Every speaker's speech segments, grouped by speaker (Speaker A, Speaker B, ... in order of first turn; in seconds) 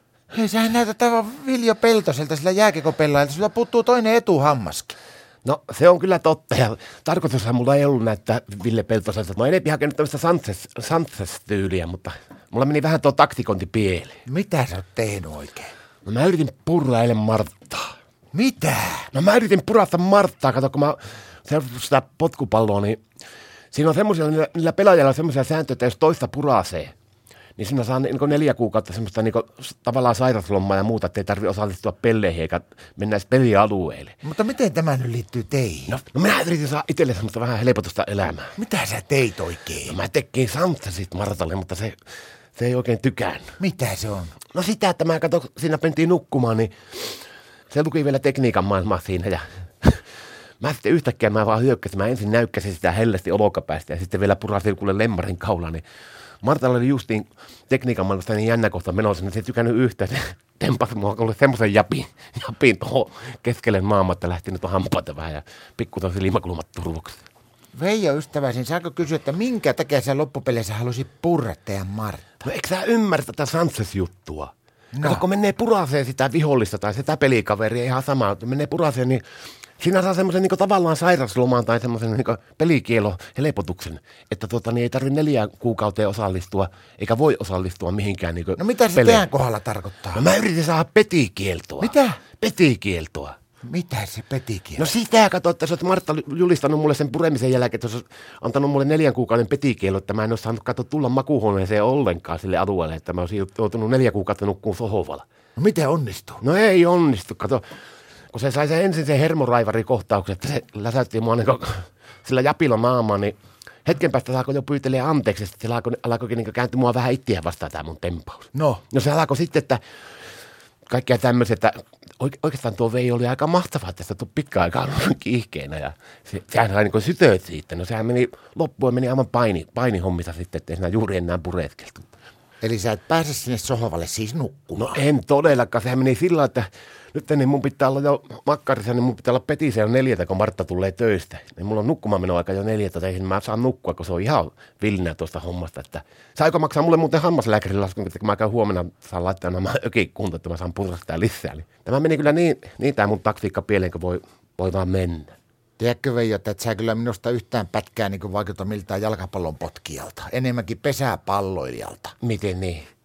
Speaker A: 0.3-5.0, 14.3-15.7, 18.3-19.1, 34.2-36.0, 38.6-40.0, 43.6-44.4, 67.7-72.3, 74.9-75.2, 88.6-90.2, 91.8-92.2, 93.6-94.8, 105.6-106.4, 118.5-118.8, 132.6-135.0, 155.8-162.1
Speaker B: 5.4-14.2, 16.1-17.9, 19.1-23.0, 23.7-26.9, 27.6-34.2, 35.9-38.5, 39.9-42.0, 42.5-43.6, 44.5-47.0, 47.7-50.0, 50.6-55.8, 56.4-67.2, 72.4-79.2, 79.8-89.2, 90.1-93.4, 94.8-105.2, 106.4-107.6, 108.3-119.8, 120.9-132.1, 134.8-155.3, 162.2-162.9